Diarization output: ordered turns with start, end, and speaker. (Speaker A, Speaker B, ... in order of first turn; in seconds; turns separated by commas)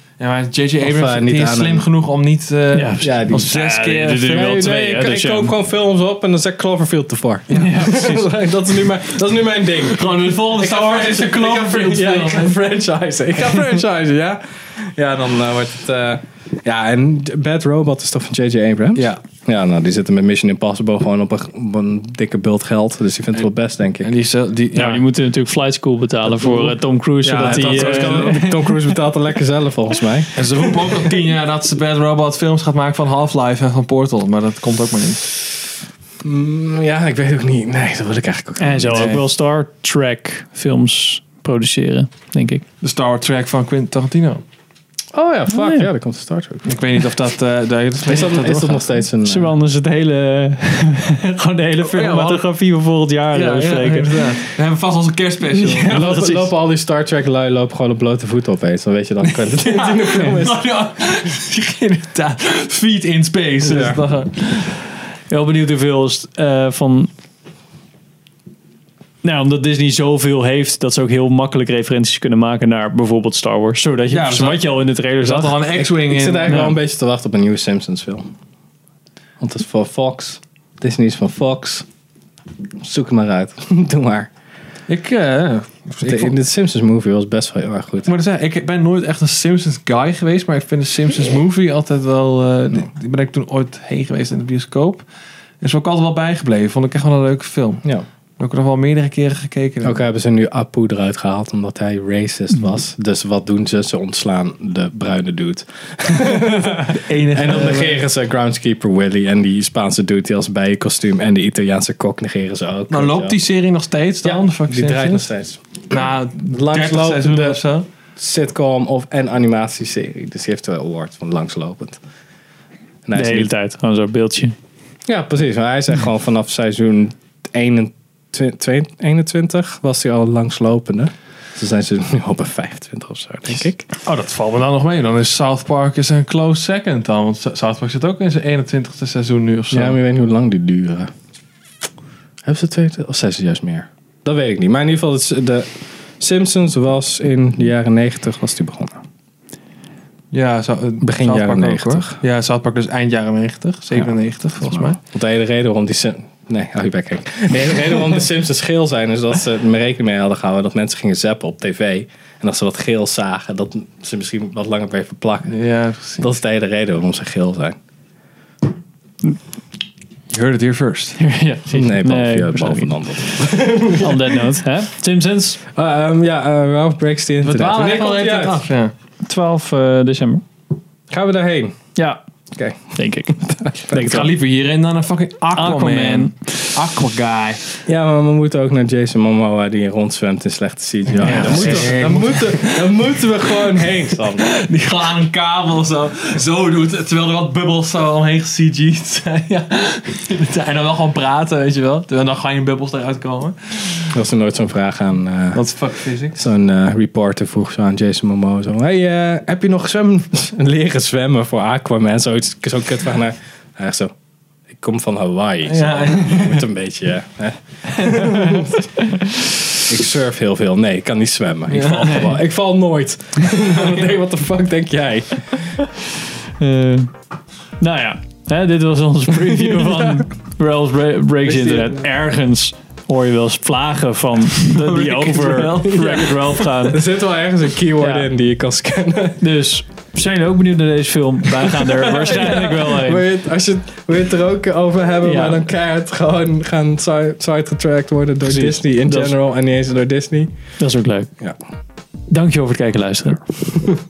Speaker A: 0.2-4.7, Speaker B: 0.8-1.9, Speaker C: 2.7-5.5, Speaker B: 3.0-3.5, Speaker B: 4.3-24.1, Speaker A: 7.5-7.9, Speaker C: 7.5-8.2, Speaker A: 9.9-12.6, Speaker A: 24.0-25.0, Speaker C: 24.7-28.8, Speaker A: 26.3-28.5, Speaker B: 27.3-30.4, Speaker A: 30.3-35.4, Speaker B: 36.2-39.2, Speaker C: 38.6-42.6, Speaker A: 38.9-39.2, Speaker A: 42.8-44.4, Speaker B: 45.1-46.7, Speaker C: 45.5-45.9, Speaker A: 46.6-48.9, Speaker B: 48.0-49.5, Speaker C: 49.2-54.5, Speaker A: 51.8-52.5, Speaker A: 53.3-56.1, Speaker B: 55.5-60.6, Speaker C: 55.9-56.5, Speaker A: 59.2-64.7, Speaker B: 63.6-64.0, Speaker C: 65.3-67.1, Speaker C: 69.2-75.6, Speaker A: 74.1-76.7, Speaker B: 75.7-78.2, Speaker C: 76.5-76.8, Speaker B: 79.4-81.8, Speaker B: 82.8-84.3, Speaker A: 84.9-86.3, Speaker B: 86.0-88.1, Speaker A: 88.0-95.0, Speaker A: 95.6-97.8, Speaker A: 98.4-100.0, Speaker B: 99.8-113.4, Speaker A: 106.9-108.0, Speaker A: 112.9-115.2, Speaker B: 114.2-117.6, Speaker A: 115.9-117.8, Speaker B: 118.2-122.0, Speaker B: 123.0-123.5, Speaker C: 123.1-124.5, Speaker B: 125.0-133.8, Speaker A: 133.5-140.0, Speaker B: 139.7-141.1, Speaker B: 142.4-149.0, Speaker A: 150.3-155.0, Speaker B: 151.0-152.2, Speaker B: 153.9-165.5, Speaker A: 165.5-166.3, Speaker B: 166.2-167.8, Speaker A: 170.3-171.2, Speaker C: 171.2-175.6, Speaker B: 171.7-174.5, Speaker B: 175.7-178.7, Speaker A: 177.4-178.9, Speaker C: 179.2-180.4, Speaker B: 181.1-181.7, Speaker B: 182.5-184.3, Speaker C: 182.9-183.5, Speaker A: 183.9-187.6, Speaker C: 185.5-186.7, Speaker B: 187.8-194.5, Speaker A: 191.2-193.1, Speaker C: 191.4-191.7, Speaker A: 193.8-204.2, Speaker B: 204.1-205.7, Speaker A: 205.5-206.4, Speaker B: 206.3-214.1, Speaker B: 214.7-218.9, Speaker A: 215.6-216.6, Speaker C: 218.1-219.2, Speaker B: 219.8-225.8, Speaker A: 221.7-222.4, Speaker C: 226.6-227.1, Speaker C: 227.8-237.0, Speaker B: 231.4-232.1, Speaker A: 234.5-236.9, Speaker B: 236.9-239.5, Speaker C: 238.0-238.3, Speaker C: 239.4-243.2, Speaker B: 241.6-250.5, Speaker C: 245.2-245.6, Speaker C: 248.4-249.3, Speaker C: 250.8-251.3, Speaker C: 252.3-253.5